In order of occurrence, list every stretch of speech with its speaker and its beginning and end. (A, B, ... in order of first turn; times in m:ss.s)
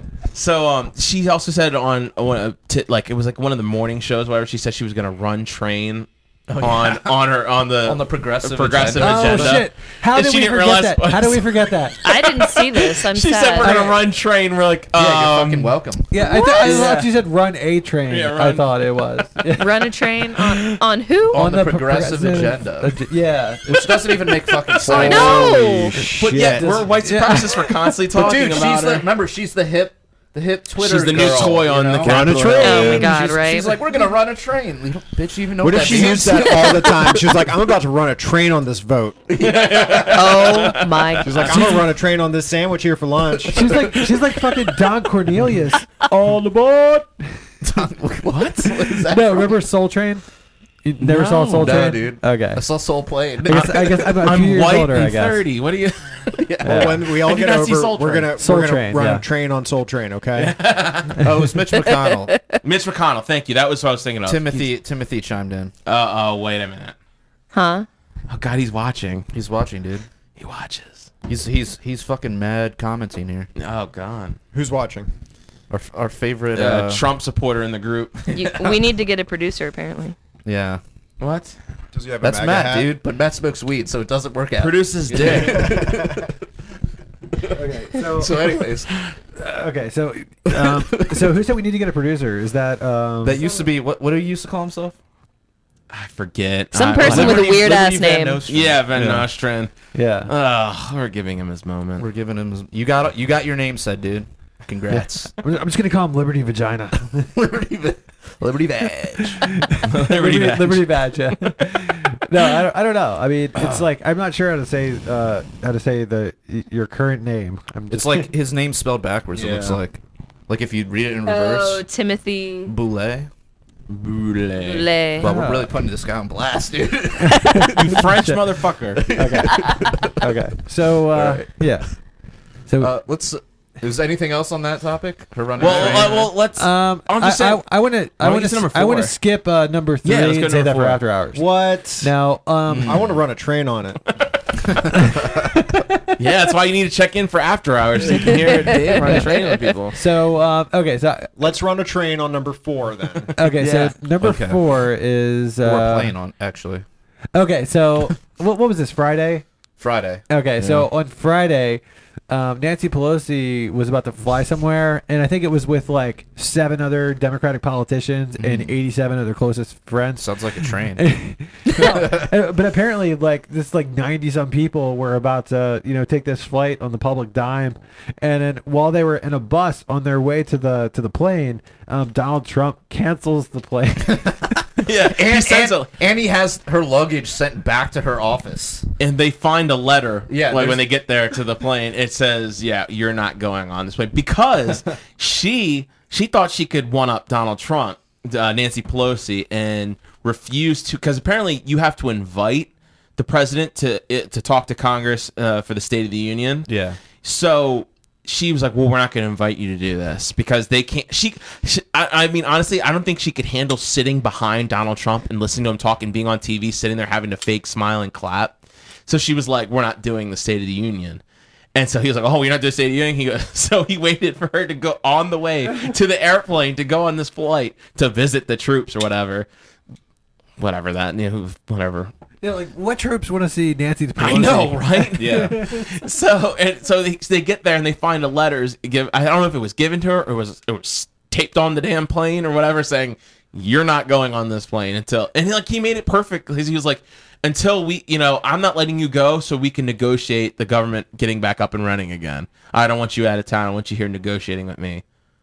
0:00.3-0:06.1 A
0:06.5-0:07.2 B
0:06.6-0:15.8 A
0:07.8-0:09.6 B
0:09.0-0:12.0 C
0:12.0-0:13.9 D
0:13.6-0:14.0 C
0:15.0-0:16.2 B
0:16.1-0:20.8 C
0:16.2-0:17.1 D
0:18.1-0:18.7 A
0:19.6-0:21.5 D
0:21.3-0:24.2 C
0:21.3-0:23.0 B
0:23.7-0:25.6 B
0:24.5-0:29.1 A
0:24.9-0:26.0 D
0:25.0-0:26.9 E
0:26.6-0:27.7 C
0:28.1-0:37.5 B
0:30.8-0:33.1 A
0:32.0-0:33.1 E
0:32.6-0:33.8 D
0:35.6-0:39.2 E
0:36.3-0:36.6 D
0:39.3-0:40.8 B
0:39.4-0:41.9 A
0:40.1-0:41.6 D
0:41.2-0:43.8 E
0:43.5-0:47.2 C
0:47.6-0:49.6 B
0:48.3-0:48.8 A
0:49.1-0:50.2 C
0:50.8-0:52.6 C
0:51.1-0:51.8 A
0:51.2-0:54.2 B
0:53.4-0:55.4 C
0:53.5-0:56.4 A
0:56.3-0:57.1 B
0:56.6-0:57.0 C
0:56.7-1:00.6 E
0:57.1-0:58.3 A
0:58.4-0:59.2 C
1:00.4-1:01.2 A
1:01.2-1:02.4 B
1:01.2-1:01.5 C
1:01.7-1:02.6 D
1:02.6-1:04.7 A
1:04.2-1:05.7 B
1:05.9-1:07.0 A
1:07.5-1:07.9 D
1:08.3-1:09.3 A
1:09.3-1:10.1 B
1:10.4-1:11.1 A
1:11.3-1:13.5 B
1:13.6-1:14.4 A
1:14.5-1:15.1 E
1:15.7-1:17.0 B
1:16.5-1:18.7 A
1:18.3-1:20.2 D
1:20.4-1:20.8 B
1:21.2-1:21.6 A
1:21.9-1:22.9 E
1:22.2-1:26.3 B
1:24.6-1:25.9 A
1:27.4-1:28.9 B
1:27.6-1:28.6 C
1:29.4-1:33.4 C
1:30.5-1:31.3 B
1:33.2-1:35.0 B
1:35.9-1:37.6 A
1:36.7-1:38.4 D
1:37.0-1:39.1 B
1:38.5-1:39.7 A
1:39.0-1:39.3 C
1:39.9-1:40.3 C
1:40.3-1:42.1 A
1:42.0-1:45.3 B
1:44.9-1:47.3 C
1:47.3-1:49.6 B
1:49.4-1:58.3 C
1:49.8-1:51.5 A
1:53.6-1:53.8 B
1:57.9-2:01.9 B
1:59.4-1:59.8 A
2:01.2-2:02.7 D
2:02.7-2:03.3 B
2:03.9-2:04.9 A
2:04.6-2:05.4 D
2:05.2-2:08.0 B
2:05.2-2:05.7 C
2:07.2-2:08.4 C
2:07.7-2:09.1 A
2:09.0-2:10.3 B
2:09.1-2:12.0 C
2:09.5-2:09.8 D
2:11.1-2:11.6 B
2:12.7-2:12.9 C
2:12.8-2:16.3 B
2:15.6-2:19.2 A
2:16.6-2:23.0 C
2:20.0-2:21.0 A
2:21.3-2:22.1 E
2:22.7-2:23.2 B
2:22.8-2:24.0 E
2:24.6-2:25.6 B
2:24.9-2:26.1 C
2:26.2-2:30.0 A
2:28.3-2:29.7 D
2:29.9-2:31.3 C
2:31.4-2:33.3 E
2:33.4-2:36.1 C
2:33.6-2:34.6 B
2:35.6-2:36.8 B
2:37.3-2:39.4 C
2:39.8-2:40.3 B
2:40.3-3:04.6 C
2:48.4-2:48.7 B
2:50.2-2:51.0 B
2:51.8-2:52.3 B
3:04.1-3:04.4 B
3:04.8-3:05.9 A
3:05.1-3:08.9 B
3:09.0-3:26.7 A
3:10.3-3:10.8 B
3:26.7-3:27.0 B
3:27.2-3:41.2 A
3:41.8-3:49.5 A
3:50.6-3:52.1 A
3:52.4-3:55.9 C
3:54.2-4:15.0 A
3:55.2-3:55.5 B